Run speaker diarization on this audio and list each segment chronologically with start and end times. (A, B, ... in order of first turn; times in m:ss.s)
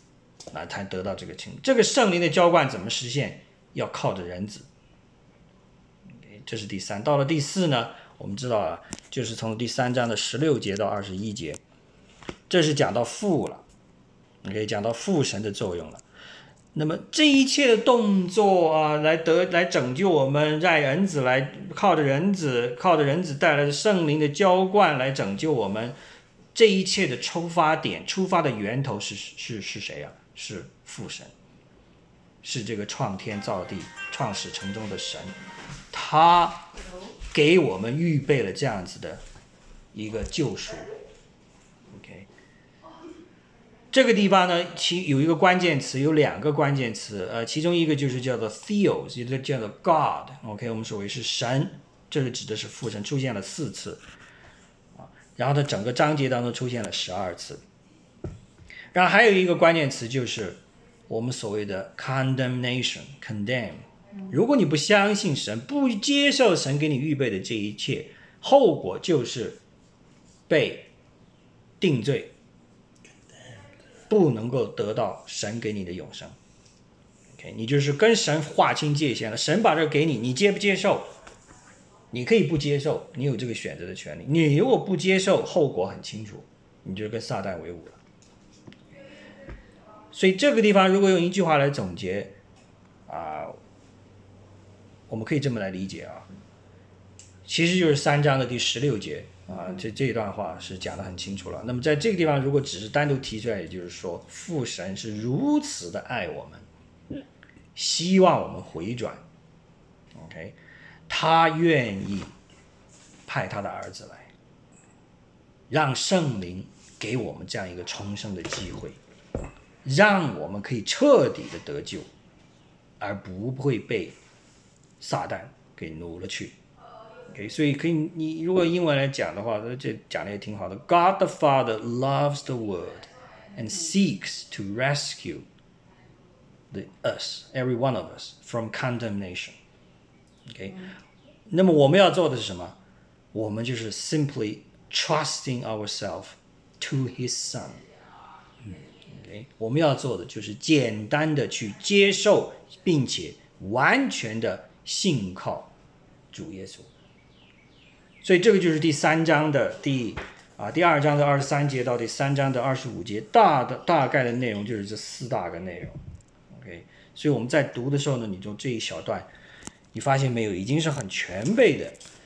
0:00.5-0:04.7 A
0:06.2-0:11.6 A
0:12.5-0:13.6 A
0:14.4-0:16.0 A
0:16.7-0:26.0 A
0:26.5-0:31.3 A
0:32.4-0:35.3 A
0:35.9-0:36.8 A
0:37.3-0:39.2 A
0:39.9-0:40.9 A
0:41.9-0:42.3 A
0:43.9-0:54.0 A
0:55.0-0:57.6 A
0:58.9-1:09.6 A
1:10.5-1:10.9 A
1:11.8-1:12.3 A
1:14.1-1:16.3 A
1:17.4-1:21.1 A
1:22.1-1:28.0 A
1:30.1-1:32.4 A
1:33.1-1:33.6 A
1:35.1-1:36.3 A
1:37.4-1:46.6 A
1:47.7-1:49.2 A
1:50.1-1:50.6 A
1:51.1-1:52.3 A
1:53.2-1:54.3 A
1:55.7-1:59.0 A
1:59.8-2:02.1 A
2:03.0-2:04.2 A
2:05.0-2:06.6 A
2:07.3-2:15.4 A
2:16.7-2:19.6 A
2:20.5-2:20.8 A
2:21.5-2:22.8 A
2:23.3-2:27.8 A
2:29.1-2:35.7 A
2:36.3-2:36.9 A
2:38.2-2:46.0 A
2:46.5-2:49.3 A
2:49.9-2:52.0 A